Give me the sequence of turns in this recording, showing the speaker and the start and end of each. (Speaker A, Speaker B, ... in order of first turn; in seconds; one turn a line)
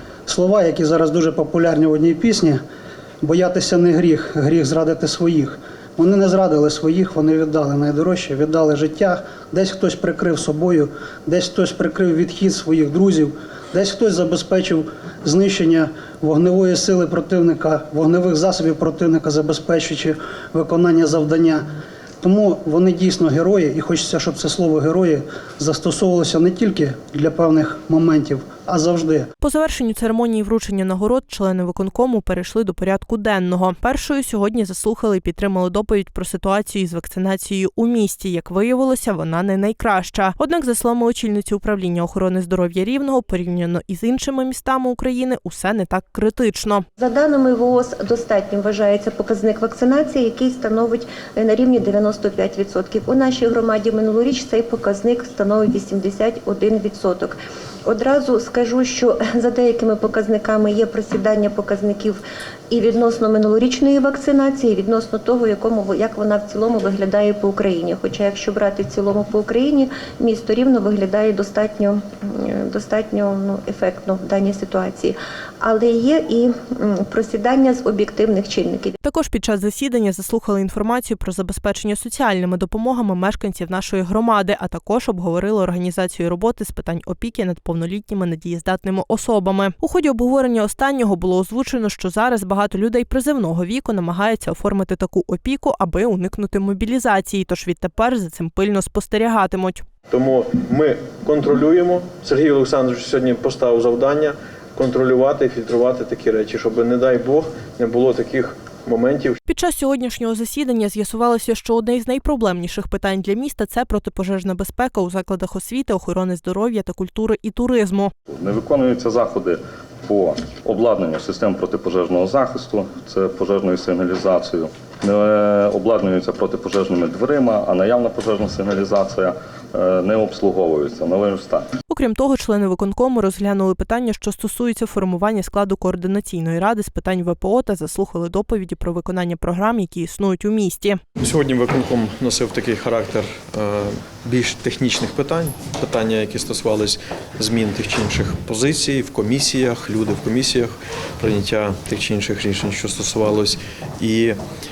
Speaker A: 0.2-2.6
Speaker A: 3.2-21.6
Speaker A: 22.2-29.3
Speaker B: 29.4-46.8
Speaker C: 47.0-62.2
Speaker C: 62.7-79.0
Speaker B: 79.0-99.8
Speaker D: 100.1-109.4
Speaker B: 109.5-118.1
Speaker E: 118.3-131.7
Speaker B: 131.9-141.0
Speaker D: 141.2-154.4